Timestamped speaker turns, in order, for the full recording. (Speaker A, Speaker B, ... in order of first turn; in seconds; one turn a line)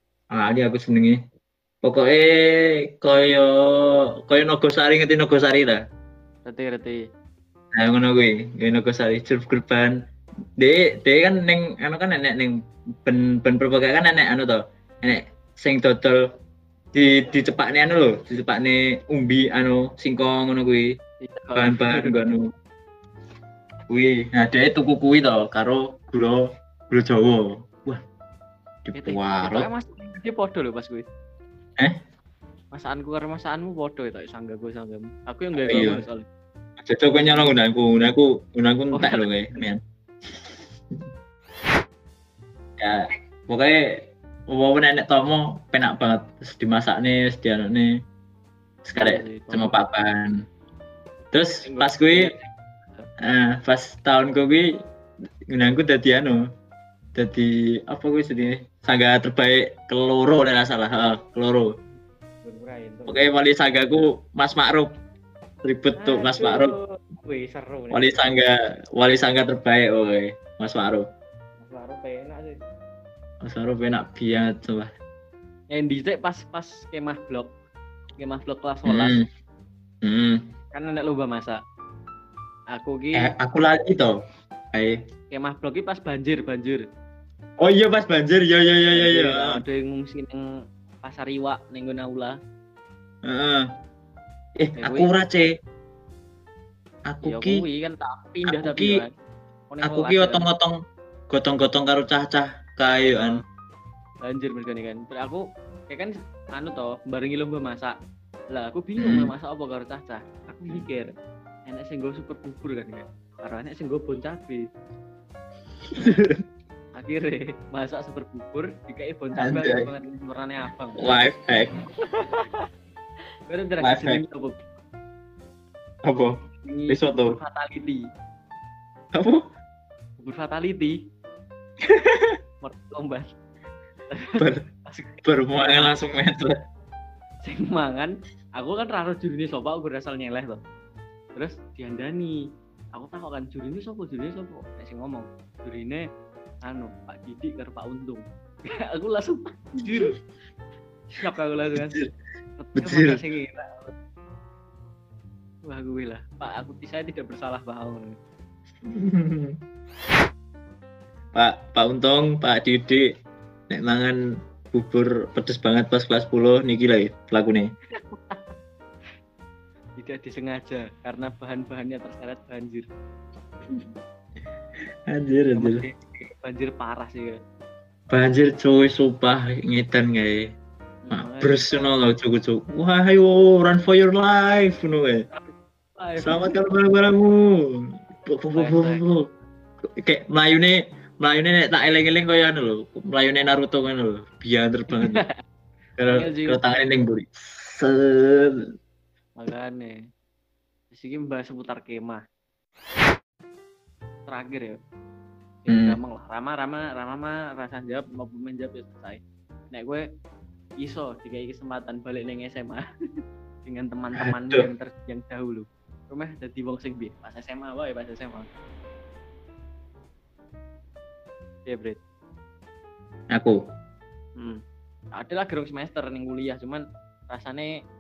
Speaker A: 0.3-1.2
Speaker A: 1.8-5.8
Speaker B: 6.5-7.0
Speaker A: 7.7-10.0
Speaker A: 10.6-16.2
Speaker A: 16.9-21.0
Speaker B: 21.2-22.3
Speaker A: 21.6-22.5
Speaker A: 23.9-28.0
Speaker A: 28.9-29.7
Speaker B: 28.9-31.1
Speaker B: 32.7-36.3
Speaker A: 35.7-36.0
Speaker A: 36.8-39.8
Speaker B: 37.1-37.6
Speaker B: 38.9-39.3
Speaker A: 40.5-41.0
Speaker A: 42.8-47.9
Speaker A: 48.9-50.4
Speaker B: 49.0-49.8
Speaker A: 51.3-52.3
Speaker B: 51.6-53.1
Speaker A: 53.2-54.7
Speaker A: 55.5-56.5
Speaker A: 57.1-61.7
Speaker B: 62.4-63.2
Speaker A: 63.1-64.9
Speaker A: 65.6-66.7
Speaker B: 66.0-68.2
Speaker A: 67.9-71.1
Speaker B: 71.6-72.6
Speaker A: 73.4-74.9
Speaker B: 75.7-77.5
Speaker B: 78.2-79.2
Speaker A: 78.9-79.3
Speaker A: 80.0-80.4
Speaker B: 80.7-81.6
Speaker B: 82.7-83.3
Speaker A: 83.2-84.1
Speaker A: 84.7-85.0
Speaker B: 85.3-86.8
Speaker A: 87.6-89.6
Speaker B: 88.9-90.4
Speaker B: 91.0-92.4
Speaker A: 93.2-93.7
Speaker A: 94.6-95.5
Speaker B: 94.8-95.1
Speaker A: 97.1-97.7
Speaker B: 97.2-99.1
Speaker A: 98.5-99.0
Speaker B: 99.7-100.5
Speaker A: 99.8-100.8
Speaker A: 101.3-103.4
Speaker B: 104.2-108.0
Speaker B: 108.5-111.1
Speaker A: 109.0-109.3
Speaker B: 111.7-114.7
Speaker A: 115.9-116.4
Speaker B: 117.0-121.1
Speaker A: 119.4-119.9
Speaker A: 121.0-121.8
Speaker B: 123.5-124.6
Speaker A: 123.8-124.2
Speaker A: 126.0-127.4
Speaker B: 126.6-128.1
Speaker A: 129.1-129.4
Speaker B: 130.2-131.0
Speaker A: 131.8-132.4
Speaker B: 132.6-133.3
Speaker B: 134.1-136.0
Speaker A: 134.4-134.7
Speaker A: 135.2-136.6
Speaker B: 137.4-140.6
Speaker B: 141.4-142.4
Speaker B: 142.9-146.1
Speaker B: 146.6-150.2
Speaker B: 151.1-152.0
Speaker A: 151.8-152.1
Speaker B: 152.6-153.9
Speaker A: 152.8-153.2
Speaker B: 155.7-158.2
Speaker A: 158.8-159.6
Speaker A: 161.3-163.1
Speaker A: 163.7-164.2
Speaker A: 164.7-167.7
Speaker B: 167.9-168.4
Speaker B: 170.0-172.9
Speaker A: 175.1-175.8
Speaker B: 175.6-177.4
Speaker A: 178.1-180.5
Speaker B: 181.1-181.7
Speaker A: 181.1-185.2
Speaker B: 185.3-186.5
Speaker A: 186.2-189.2
Speaker B: 188.6-189.0
Speaker A: 189.8-195.2
Speaker B: 194.9-195.3
Speaker A: 196.0-198.7
Speaker B: 196.1-196.9
Speaker B: 199.4-200.0
Speaker B: 200.9-202.2
Speaker B: 204.3-204.8
Speaker B: 205.7-209.2
Speaker A: 205.7-206.0
Speaker B: 209.7-210.1
Speaker B: 210.8-212.9
Speaker B: 213.7-218.5
Speaker A: 214.2-214.7
Speaker B: 221.7-222.0
Speaker A: 223.3-223.6
Speaker B: 225.2-227.7